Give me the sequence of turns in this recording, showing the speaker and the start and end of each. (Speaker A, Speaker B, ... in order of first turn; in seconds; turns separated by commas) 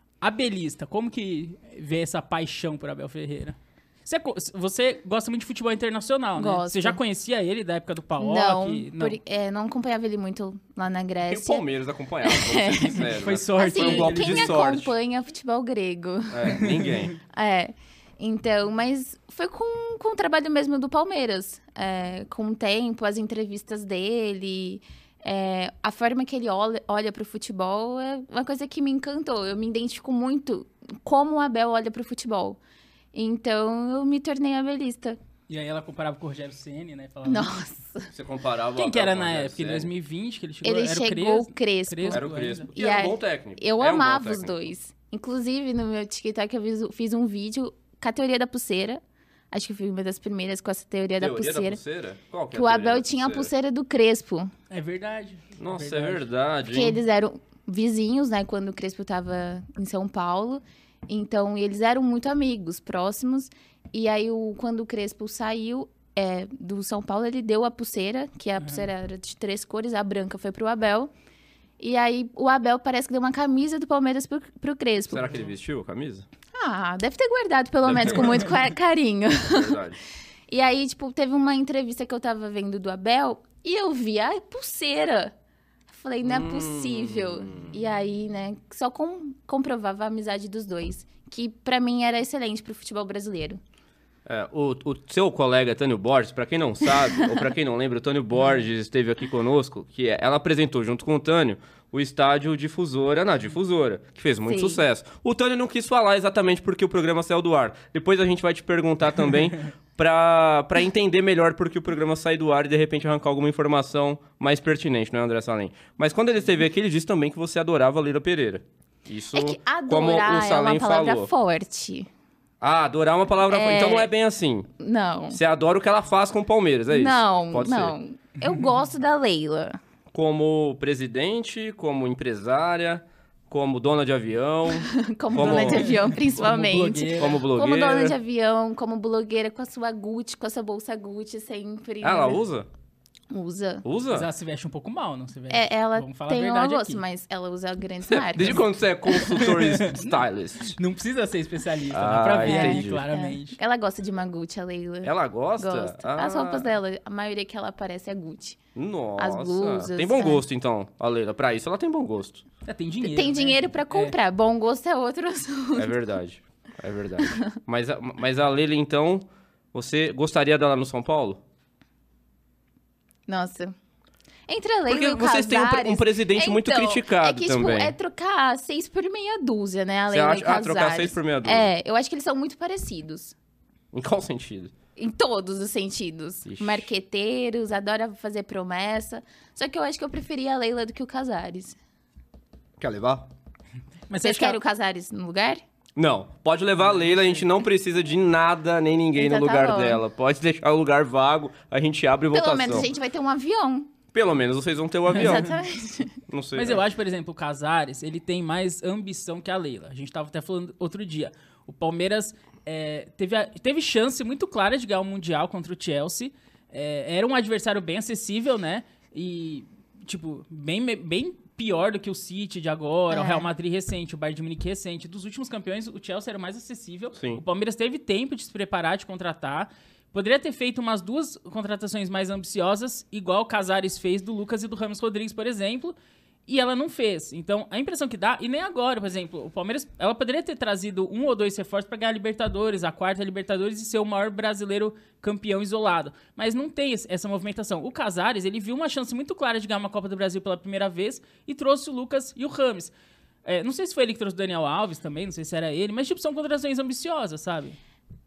Speaker A: 0.2-9.2, Speaker B: 6.4-7.0, Speaker B: 8.2-11.6, Speaker C: 11.3-14.9, Speaker B: 12.2-16.7, Speaker A: 13.0-14.6, Speaker C: 16.3-17.2, Speaker A: 16.6-17.1, Speaker B: 17.2-32.6, Speaker B: 33.1-35.2, Speaker A: 35.5-37.5, Speaker B: 37.2-38.1, Speaker C: 38.1-39.9, Speaker A: 38.8-42.7, Speaker B: 40.6-51.8, Speaker C: 42.1-44.6, Speaker C: 51.2-53.5, Speaker B: 52.5-54.5, Speaker A: 54.7-56.3, Speaker C: 55.5-57.0, Speaker B: 56.7-71.1, Speaker A: 68.6-68.9, Speaker B: 71.8-75.3, Speaker C: 75.1-76.3, Speaker B: 76.5-79.8, Speaker C: 77.8-78.5, Speaker C: 79.5-80.0, Speaker B: 80.5-85.3, Speaker B: 85.9-93.6, Speaker C: 86.2-87.8, Speaker C: 94.2-121.3, Speaker B: 104.5-104.8, Speaker B: 119.3-122.1, Speaker C: 122.6-124.7, Speaker B: 123.5-124.1, Speaker B: 124.8-125.4, Speaker C: 125.3-128.0, Speaker B: 126.9-129.8, Speaker C: 130.1-136.0, Speaker B: 134.8-142.4, Speaker A: 135.4-137.4, Speaker C: 137.2-138.2, Speaker C: 142.0-142.7, Speaker B: 143.3-143.8, Speaker C: 143.8-144.3, Speaker A: 144.1-147.0, Speaker B: 145.5-148.6, Speaker C: 148.1-150.8, Speaker A: 149.2-153.6, Speaker C: 151.9-153.1, Speaker B: 152.4-158.6, Speaker C: 155.0-156.8, Speaker C: 158.8-162.4, Speaker B: 159.2-160.4, Speaker A: 162.6-164.2, Speaker B: 163.0-166.0, Speaker C: 165.8-171.4, Speaker B: 167.2-167.5, Speaker B: 173.3-173.8, Speaker B: 174.5-183.4, Speaker C: 174.9-177.9, Speaker C: 180.1-181.7, Speaker C: 183.9-184.7, Speaker B: 185.0-191.8, Speaker C: 186.5-186.9, Speaker C: 192.8-193.3, Speaker A: 194.1-194.6, Speaker B: 194.2-195.6, Speaker C: 196.0-202.9, Speaker A: 196.8-197.4, Speaker B: 199.2-200.0, Speaker B: 202.3-203.9, Speaker C: 204.1-205.6, Speaker A: 205.1-205.5, Speaker B: 205.2-206.2, Speaker C: 206.2-206.8, Speaker A: 206.6-235.9, Speaker B: 223.1-223.5, Speaker C: 227.2-227.4, Speaker A: 236.5-252.9, Speaker A: 253.4-257.8